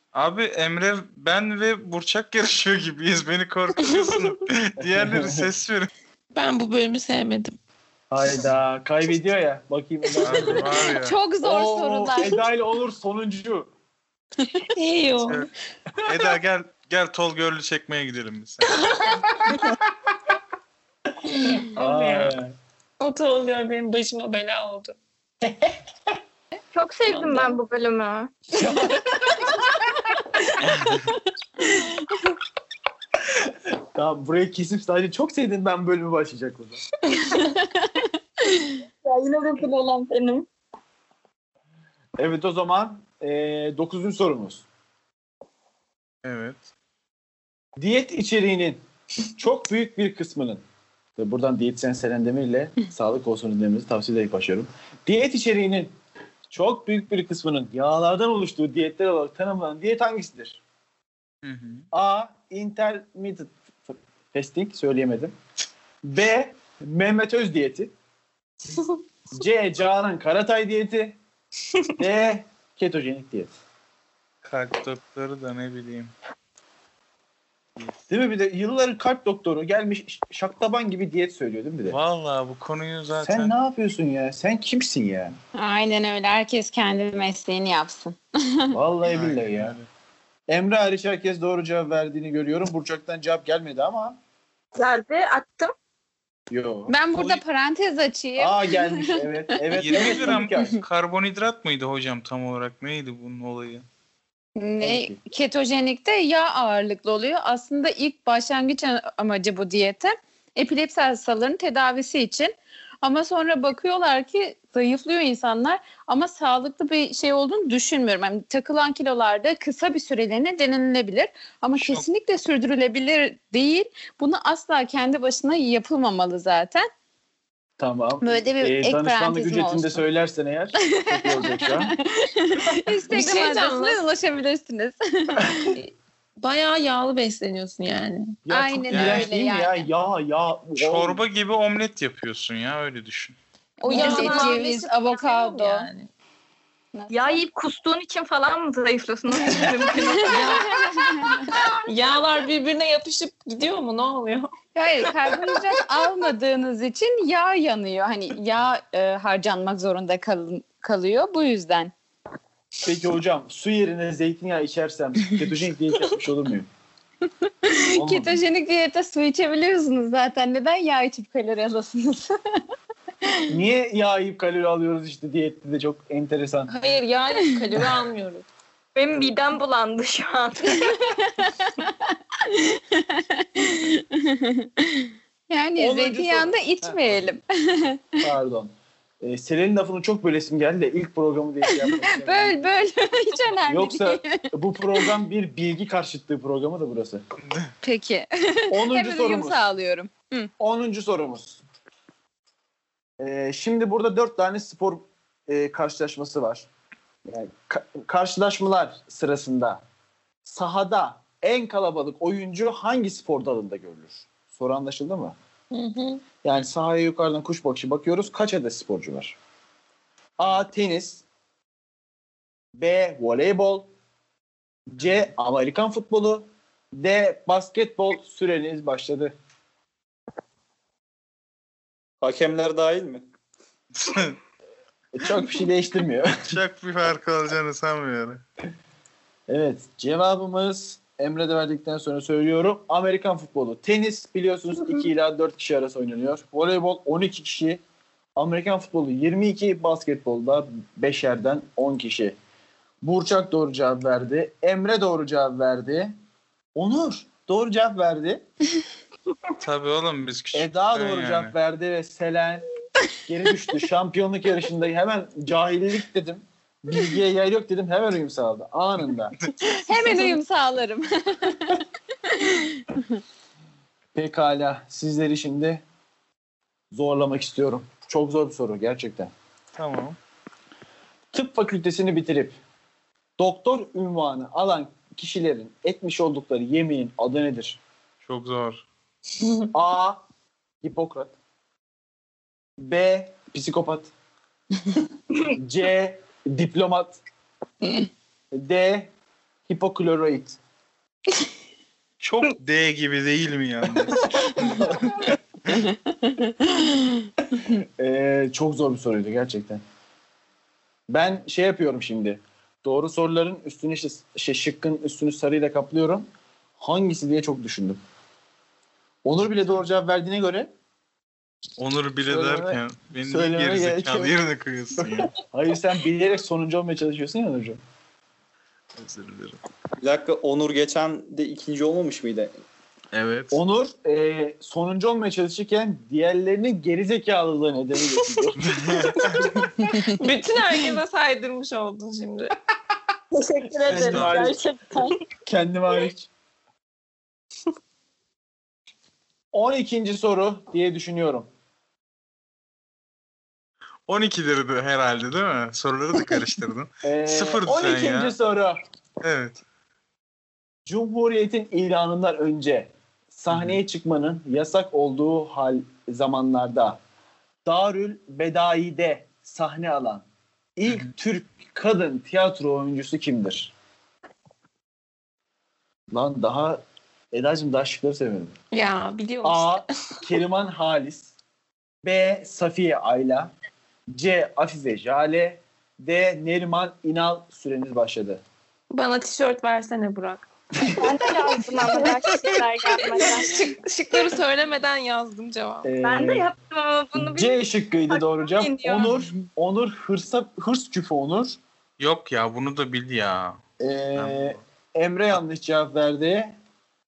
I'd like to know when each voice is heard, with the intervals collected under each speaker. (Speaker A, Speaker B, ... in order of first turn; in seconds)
Speaker A: 0.1-5.9, 10.2-11.1, 16.0-19.2, 30.6-31.1, 46.2-46.6, 61.4-61.9, 74.4-76.1, 81.9-83.5, 89.1-89.9, 99.7-103.8, 121.7-122.0, 138.9-139.3, 140.8-143.4, 197.4-197.7, 233.9-234.4, 236.4-238.4, 259.6-261.5, 269.4-269.8, 279.8-280.2, 288.2-288.8, 302.2-305.3, 321.8-325.3, 329.0-329.6, 333.1-333.6, 338.6-339.6, 343.9-344.5, 354.1-358.4, 359.2-359.6, 363.5-363.8, 402.0-403.6, 404.1-404.6
Speaker B: 4.8-5.5, 8.1-10.8, 11.4-13.7, 19.4-19.7, 21.7-22.5, 28.5-29.5, 33.9-36.8, 42.2-44.6, 47.8-48.8, 49.4-50.6, 51.2-55.9, 56.5-60.6, 61.9-65.3, 66.0-67.9, 69.3-71.2, 72.0-73.5, 78.1-82.0, 83.1-85.3, 88.7-89.8, 90.5-94.2, 96.5-96.9, 98.4-100.8, 104.8-105.2, 127.8-131.9, 138.4-141.2, 162.8-166.7, 167.9-168.4, 173.5-176.7, 185.8-187.3, 188.2-192.7, 193.7-197.2, 198.7-199.7, 200.6-201.6, 203.2-206.7, 207.3-209.8, 210.4-215.3, 216.4-219.3, 220.4-221.2, 222.7-223.9, 224.9-229.3, 235.1-236.4, 239.5-247.8, 248.3-252.3, 253.0-256.1, 256.8-258.4, 260.5-262.7, 263.2-269.4, 274.1-275.8, 276.9-279.3, 281.3-282.5, 283.4-287.8, 289.7-290.2, 290.8-291.3, 292.8-294.1, 295.5-297.2, 298.5-299.1, 299.7-300.6, 304.6-304.9, 307.7-309.8, 311.1-316.3, 316.8-318.0, 319.2-320.7, 322.2-324.4, 325.0-327.8, 333.5-339.4, 343.8-344.6, 345.4-346.3, 349.5-351.5, 357.0-358.8, 360.9-367.0, 367.6-370.2, 370.8-373.7, 376.1-376.8, 377.3-378.6, 379.4-381.3, 382.0-383.5, 384.1-388.4, 390.8-391.1, 395.8-396.5, 397.1-401.6, 403.8-406.6
Speaker C: 6.3-7.6, 14.7-15.5, 18.8-19.1, 21.6-22.3, 23.0-24.9, 27.1-27.5, 133.1-134.0, 135.8-138.4, 143.8-146.1, 150.2-150.7, 151.8-154.5, 155.1-155.6, 176.7-178.4, 215.7-216.2, 339.9-342.5, 378.7-379.9, 388.9-390.5, 393.1-395.9
Speaker D: 10.9-12.4, 37.3-38.7, 85.5-88.7, 96.9-99.2, 99.9-100.4, 104.5-126.9, 128.2-130.0, 130.8-135.7, 138.5-139.9, 143.8-145.9, 146.9-147.4, 150.1-151.6, 154.7-161.9, 167.4-172.6, 180.7-188.2, 191.7-195.1, 197.8-200.5, 269.8-273.2, 306.4-307.0
Speaker E: 26.7-28.3, 39.0-40.5, 94.8-95.7, 143.9-144.7, 147.1-150.7, 178.9-181.0, 343.3-345.2, 391.0-393.5, 396.0-399.1
Speaker F: 232.2-233.2, 330.0-332.6